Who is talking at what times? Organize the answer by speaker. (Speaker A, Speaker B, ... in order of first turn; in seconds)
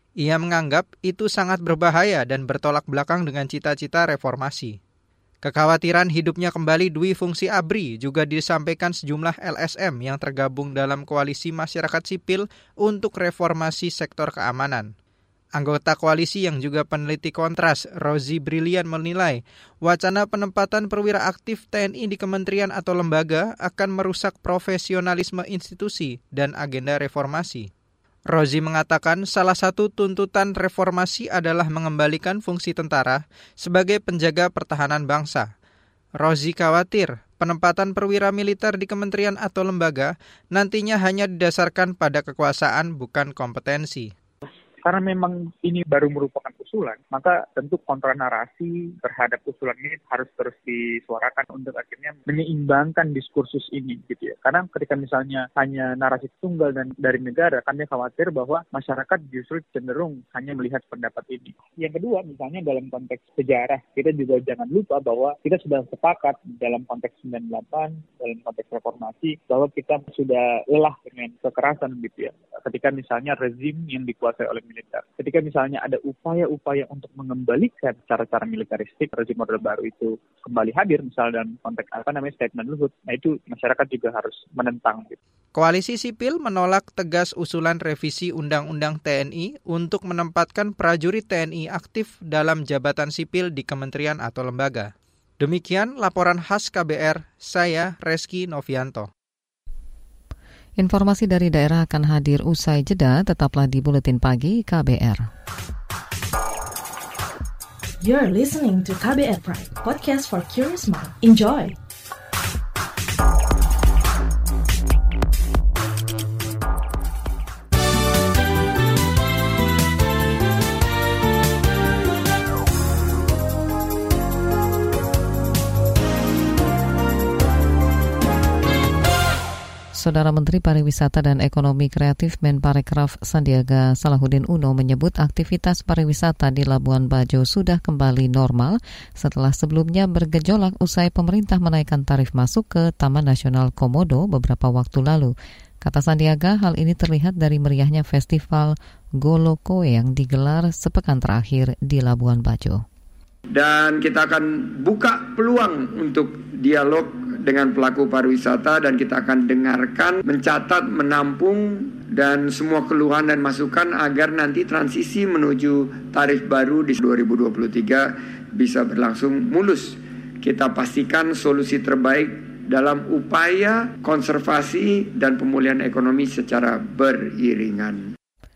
Speaker A: 0.2-4.8, 5.4-14.9, 15.6-27.7, 28.3-35.5, 36.2-44.1, 85.5-99.1
Speaker B: 44.8-85.2
Speaker C: 100.8-105.3, 129.9-152.8
Speaker D: 108.0-111.8
Speaker E: 153.5-178.1